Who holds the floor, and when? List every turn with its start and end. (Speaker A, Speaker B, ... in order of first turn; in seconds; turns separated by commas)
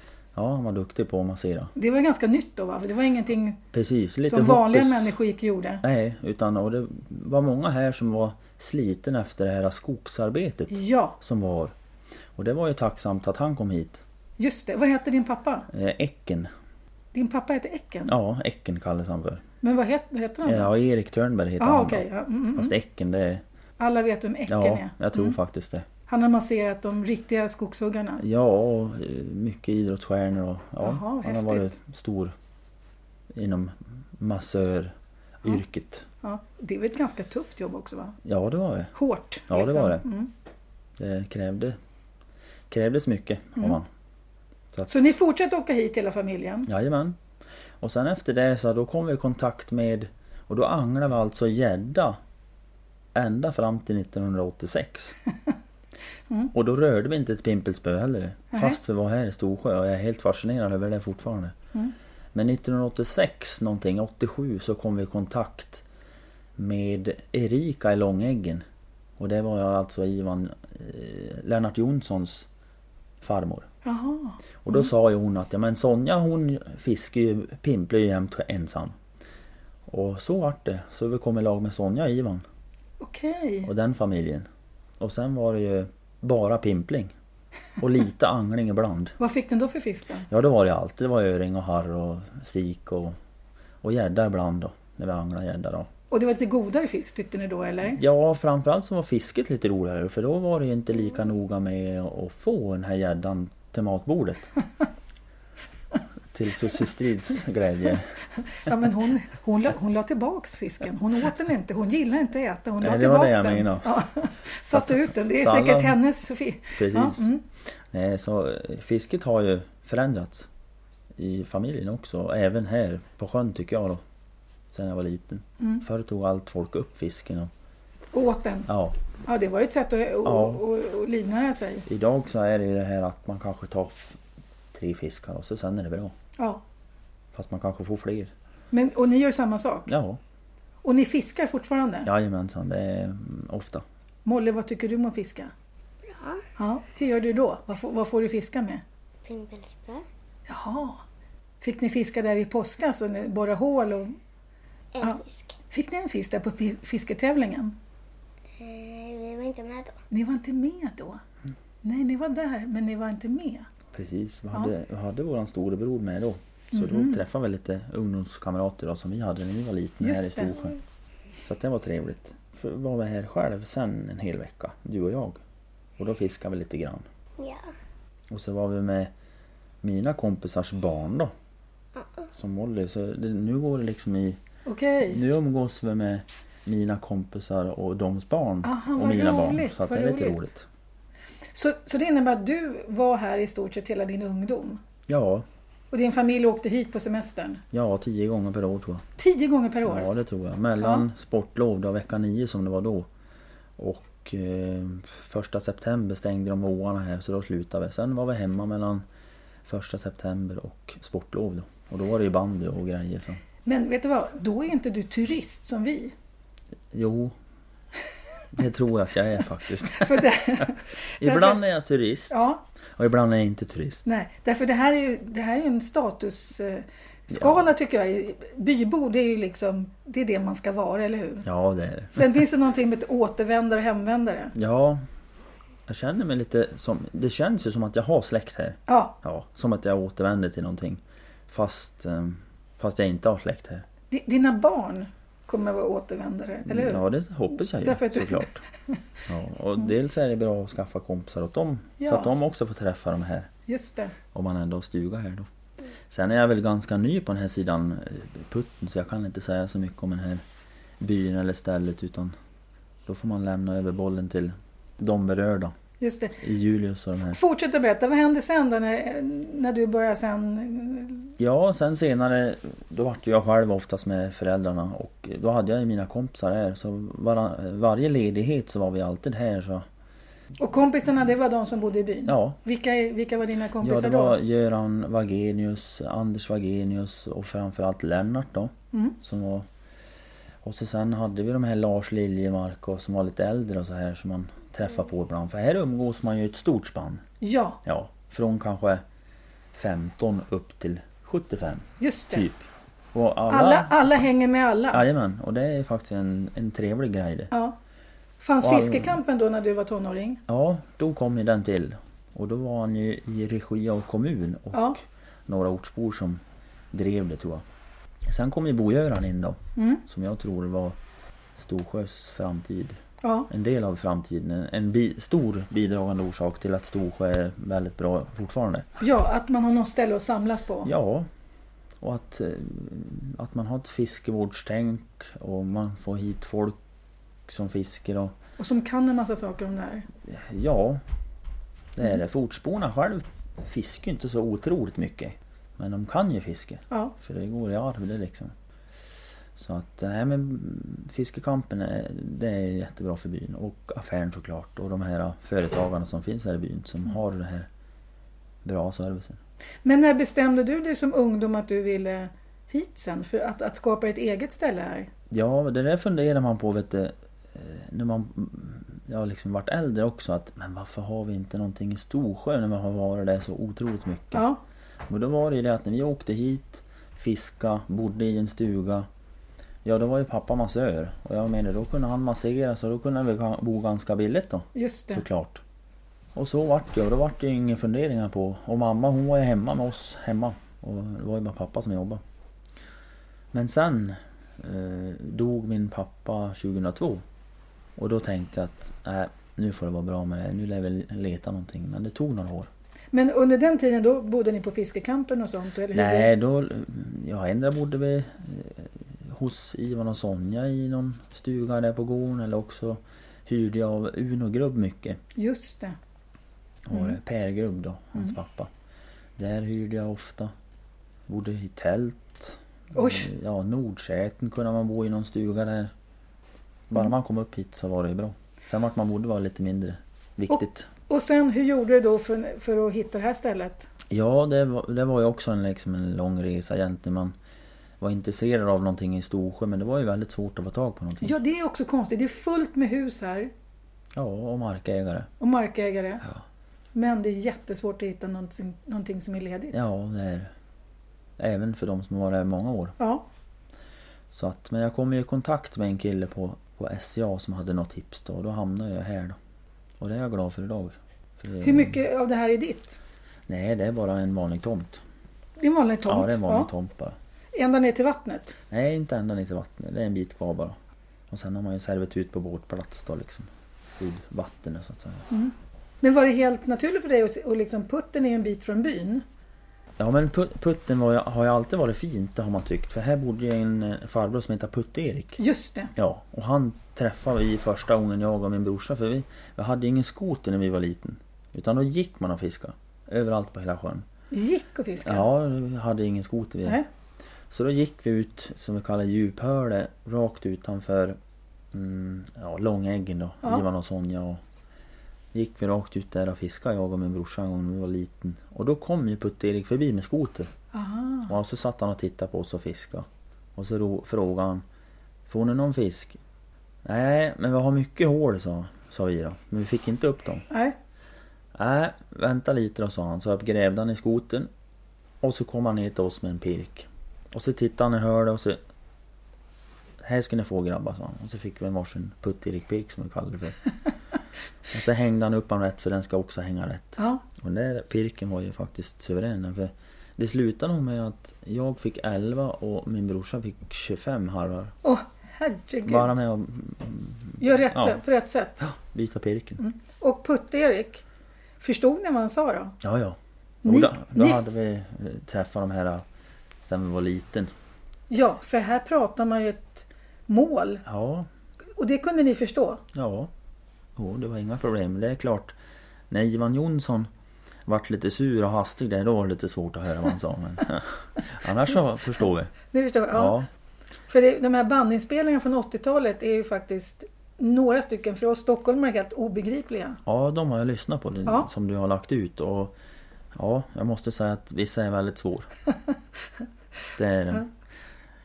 Speaker A: 0.3-1.7, Speaker B: 1.8-3.6, Speaker A: 3.7-5.2, Speaker B: 4.3-5.8, Speaker A: 5.8-11.7, Speaker B: 10.7-11.2, Speaker A: 12.4-14.0, Speaker B: 14.4-15.7, Speaker A: 15.7-16.5, Speaker B: 17.1-18.1, Speaker A: 18.1-19.4, Speaker B: 19.6-20.7, Speaker A: 20.4-23.4, Speaker B: 21.6-22.7, Speaker B: 23.8-25.4, Speaker A: 24.5-25.9, Speaker B: 26.1-28.2, Speaker A: 28.2-32.3, Speaker B: 30.8-31.8, Speaker A: 33.3-36.1, Speaker B: 36.2-38.2, Speaker A: 38.2-38.9, Speaker B: 38.9-40.3, Speaker A: 39.5-40.0, Speaker A: 41.0-41.8, Speaker A: 42.7-43.9, Speaker B: 44.9-46.7, Speaker A: 46.7-47.2, Speaker A: 47.8-52.2, Speaker A: 53.1-55.2, Speaker A: 56.5-61.6, Speaker B: 58.5-58.8, Speaker A: 62.3-65.8, Speaker A: 66.6-68.7, Speaker A: 69.2-72.5, Speaker A: 73.2-73.7, Speaker B: 73.8-74.9, Speaker A: 74.6-79.0, Speaker A: 79.9-82.5, Speaker B: 83.0-83.7, Speaker A: 83.7-84.5, Speaker A: 85.0-87.1, Speaker A: 87.8-89.2, Speaker B: 89.2-90.3, Speaker A: 90.3-93.2, Speaker A: 93.8-95.9, Speaker B: 96.1-98.0, Speaker A: 97.9-104.5, Speaker A: 106.3-108.2, Speaker B: 108.5-117.4, Speaker A: 112.8-114.0, Speaker A: 114.7-116.0, Speaker A: 116.8-117.3, Speaker A: 117.9-120.5, Speaker A: 121.2-124.0, Speaker A: 124.7-127.5, Speaker B: 125.6-125.8, Speaker B: 128.1-128.7, Speaker A: 128.7-129.0, Speaker B: 129.3-131.9, Speaker A: 130.2-130.6, Speaker A: 131.9-134.2, Speaker A: 134.7-136.1, Speaker A: 137.3-138.3, Speaker B: 138.7-139.9, Speaker A: 139.9-140.2, Speaker B: 140.8-142.1, Speaker A: 142.1-143.8, Speaker B: 144.2-145.5, Speaker C: 146.0-146.4, Speaker B: 146.6-148.8, Speaker C: 149.2-150.1, Speaker B: 150.5-151.0, Speaker B: 151.6-154.2, Speaker C: 154.9-155.6, Speaker B: 155.7-157.8, Speaker C: 158.6-160.0, Speaker B: 160.1-161.2, Speaker B: 161.8-163.7, Speaker A: 163.9-170.8, Speaker B: 166.7-167.2, Speaker B: 170.0-170.6, Speaker A: 171.4-175.4, Speaker A: 176.0-177.1, Speaker C: 177.4-177.7, Speaker A: 178.3-179.1, Speaker A: 179.8-181.3, Speaker C: 182.0-182.3, Speaker A: 182.3-184.4, Speaker B: 184.7-185.2, Speaker A: 185.1-190.7, Speaker B: 188.6-190.5, Speaker B: 191.6-194.8, Speaker A: 195.1-195.5, Speaker B: 195.9-197.6, Speaker A: 197.7-199.1, Speaker B: 199.2-200.1, Speaker A: 199.9-203.1, Speaker B: 200.8-201.1, Speaker A: 203.8-209.0, Speaker A: 209.7-213.4, Speaker B: 213.7-216.1, Speaker A: 216.9-217.3, Speaker A: 218.5-222.4, Speaker B: 219.9-221.6, Speaker B: 222.3-222.6, Speaker A: 223.0-224.0, Speaker B: 224.1-231.5, Speaker A: 227.3-227.7, Speaker A: 231.4-232.3, Speaker B: 232.1-234.6, Speaker A: 234.6-235.0, Speaker A: 235.9-243.9, Speaker B: 238.9-239.2, Speaker B: 244.1-247.1, Speaker A: 246.7-248.6, Speaker B: 247.7-249.0, Speaker A: 249.3-253.5, Speaker B: 252.0-252.3, Speaker B: 253.7-254.2, Speaker A: 254.3-255.5, Speaker A: 256.1-260.4, Speaker A: 261.0-262.4, Speaker A: 263.1-265.7, Speaker B: 266.0-266.4, Speaker A: 266.4-267.4, Speaker B: 267.3-271.3, Speaker A: 271.4-279.9, Speaker B: 280.6-284.4, Speaker A: 282.3-282.6, Speaker A: 283.8-289.7, Speaker A: 290.6-297.2, Speaker B: 297.4-297.8, Speaker A: 297.9-299.0, Speaker A: 299.7-304.0, Speaker B: 302.0-302.5, Speaker B: 303.5-305.0, Speaker A: 304.9-307.5, Speaker B: 307.5-307.8, Speaker B: 308.4-310.4, Speaker A: 308.6-309.2, Speaker A: 310.5-317.6, Speaker B: 314.7-315.0, Speaker A: 318.3-321.0, Speaker B: 319.8-320.0, Speaker A: 321.6-328.9, Speaker B: 323.2-323.5, Speaker B: 329.0-330.9, Speaker A: 330.9-331.3, Speaker A: 332.0-336.8, Speaker A: 337.5-338.4, Speaker B: 338.6-340.1, Speaker A: 340.3-341.0, Speaker A: 341.9-348.5, Speaker B: 346.9-347.1, Speaker A: 349.6-357.7, Speaker A: 358.6-359.4, Speaker B: 359.9-365.1, Speaker A: 365.3-374.5, Speaker B: 374.3-374.6, Speaker A: 375.1-379.1, Speaker A: 379.8-385.6, Speaker B: 384.8-385.2, Speaker A: 386.4-392.2, Speaker A: 393.5-397.2, Speaker A: 398.0-402.7, Speaker B: 403.1-406.3, Speaker A: 405.9-415.2, Speaker B: 415.4-416.0, Speaker A: 416.9-418.7, Speaker A: 419.4-420.5, Speaker A: 421.3-425.9, Speaker B: 422.9-423.3, Speaker A: 426.9-430.9, Speaker B: 430.5-433.9, Speaker A: 434.1-437.4, Speaker A: 438.0-441.4, Speaker B: 441.2-443.5, Speaker A: 444.1-445.3, Speaker B: 445.4-446.3, Speaker B: 446.9-449.8, Speaker A: 449.7-450.5, Speaker A: 451.4-453.0, Speaker B: 453.0-453.2, Speaker A: 454.3-459.4, Speaker A: 460.0-462.0, Speaker B: 461.6-463.0, Speaker A: 463.5-465.0, Speaker B: 465.6-466.7, Speaker A: 466.1-467.2, Speaker B: 467.5-468.6, Speaker A: 468.7-470.8, Speaker A: 471.3-473.5, Speaker A: 474.0-475.3, Speaker B: 475.3-479.2, Speaker A: 480.0-485.4, Speaker B: 485.4-485.9, Speaker A: 486.0-494.1, Speaker B: 494.3-495.3, Speaker A: 495.0-496.8, Speaker A: 497.5-501.2, Speaker A: 501.7-504.4, Speaker A: 505.3-510.5, Speaker B: 510.7-511.3, Speaker A: 511.3-514.6, Speaker A: 515.3-516.2, Speaker A: 516.9-520.5, Speaker B: 520.5-520.8, Speaker A: 521.5-524.5, Speaker A: 525.2-528.6, Speaker A: 530.0-533.6, Speaker A: 534.7-544.7, Speaker B: 537.0-537.2, Speaker B: 544.8-546.1, Speaker A: 545.9-548.0, Speaker B: 547.4-548.6, Speaker A: 548.6-549.6, Speaker B: 549.6-551.0, Speaker B: 551.6-552.8, Speaker A: 552.8-556.0, Speaker B: 553.6-554.4, Speaker A: 556.6-557.5, Speaker B: 558.1-560.8, Speaker A: 560.9-561.3, Speaker B: 561.8-562.8, Speaker A: 562.9-563.3, Speaker A: 564.0-565.6, Speaker A: 566.1-567.1, Speaker A: 567.7-572.5, Speaker B: 572.7-573.4, Speaker A: 573.1-573.5, Speaker B: 574.1-580.0, Speaker A: 580.0-582.8, Speaker A: 583.3-585.5, Speaker A: 587.0-587.5